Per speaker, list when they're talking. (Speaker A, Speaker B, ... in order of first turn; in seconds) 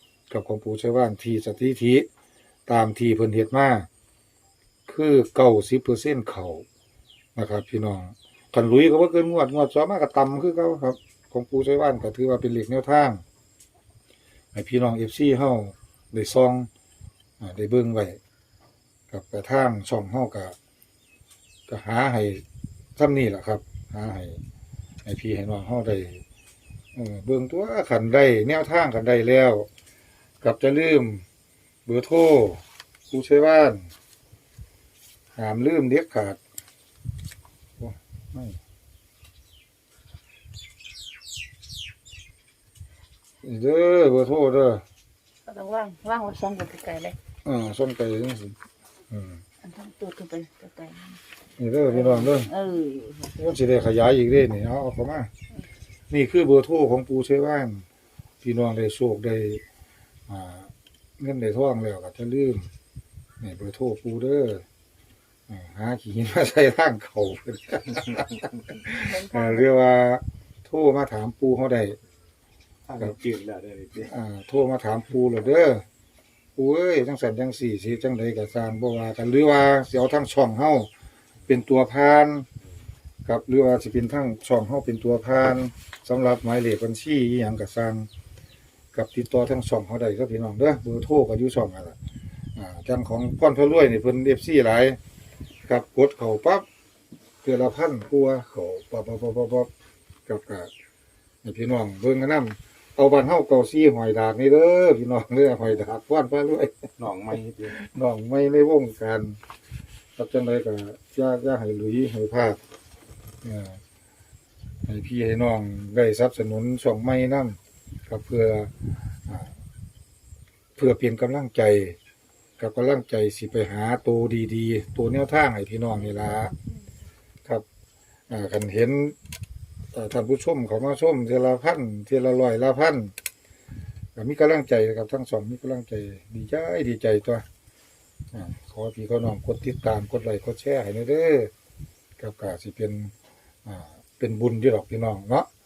Speaker A: 0.3-2.1, 2.7-3.9, 4.9-6.7, 7.3-13.2, 14.5-16.7, 17.4-18.2, 19.1-20.6, 21.7-22.4, 23.0-24.4, 25.1-26.2, 26.9-29.7, 30.4-31.2, 31.9-33.9, 35.4-36.4, 37.8-38.6, 43.4-44.8, 47.5-48.6, 49.1-49.4, 51.6-52.5, 53.4-55.3, 56.1-57.8, 58.4-59.6, 60.3-62.7, 63.4-64.6, 65.5-72.0, 74.0-75.8, 76.6-80.9, 81.5-82.5, 83.3-88.1, 88.9-92.0, 92.6-95.0, 95.7-96.7, 97.4-99.7, 100.3-100.7, 101.4-106.8, 107.7-109.4, 110.2-112.6, 113.4-113.8, 114.8-118.7, 119.2-119.5, 120.8-122.0, 122.6-126.5, 128.3-129.2, 129.9-133.1, 134.2-137.4, 138.3-141.5, 142.2-143.1, 143.7-145.5
Speaker B: 45.5-47.2, 49.6-51.2, 51.9-53.3, 69.0-69.7
Speaker C: 72.8-74.1, 107.0-107.8